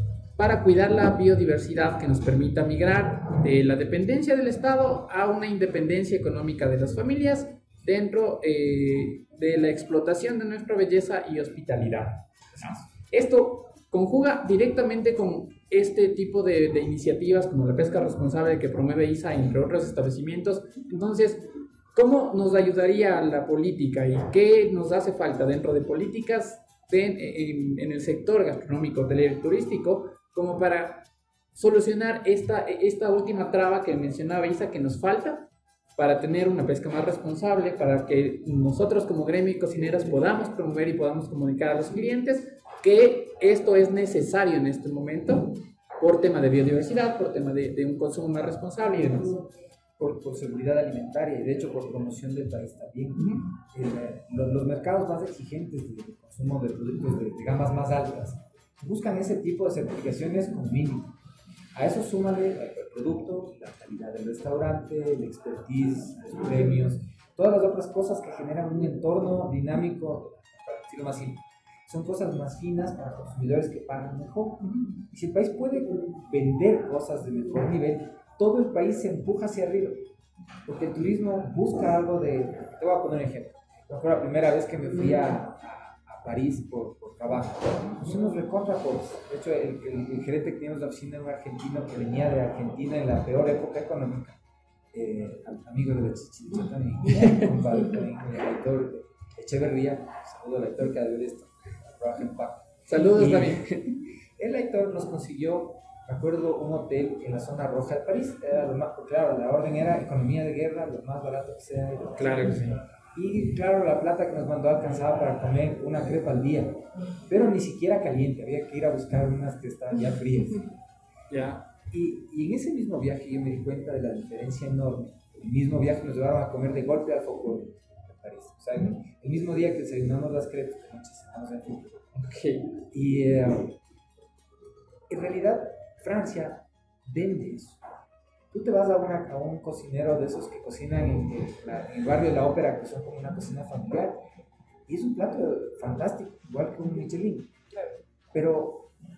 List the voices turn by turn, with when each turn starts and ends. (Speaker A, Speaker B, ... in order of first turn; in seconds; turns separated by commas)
Speaker A: 0.4-49.4, Speaker B: 50.0-61.1, Speaker A: 53.2-53.4, Speaker B: 61.7-80.0, Speaker A: 74.6-75.0, Speaker B: 80.7-94.4, Speaker B: 94.9-103.7, Speaker A: 97.1-97.6, Speaker A: 102.9-103.9, Speaker B: 104.4-112.6, Speaker A: 112.2-112.8, Speaker B: 113.1-120.7, Speaker A: 121.3-121.7, Speaker B: 121.9-132.0, Speaker A: 132.1-132.7, Speaker B: 132.9-133.8, Speaker B: 135.1-137.8, Speaker B: 138.5-144.2, Speaker B: 144.9-147.5, Speaker B: 148.3-148.9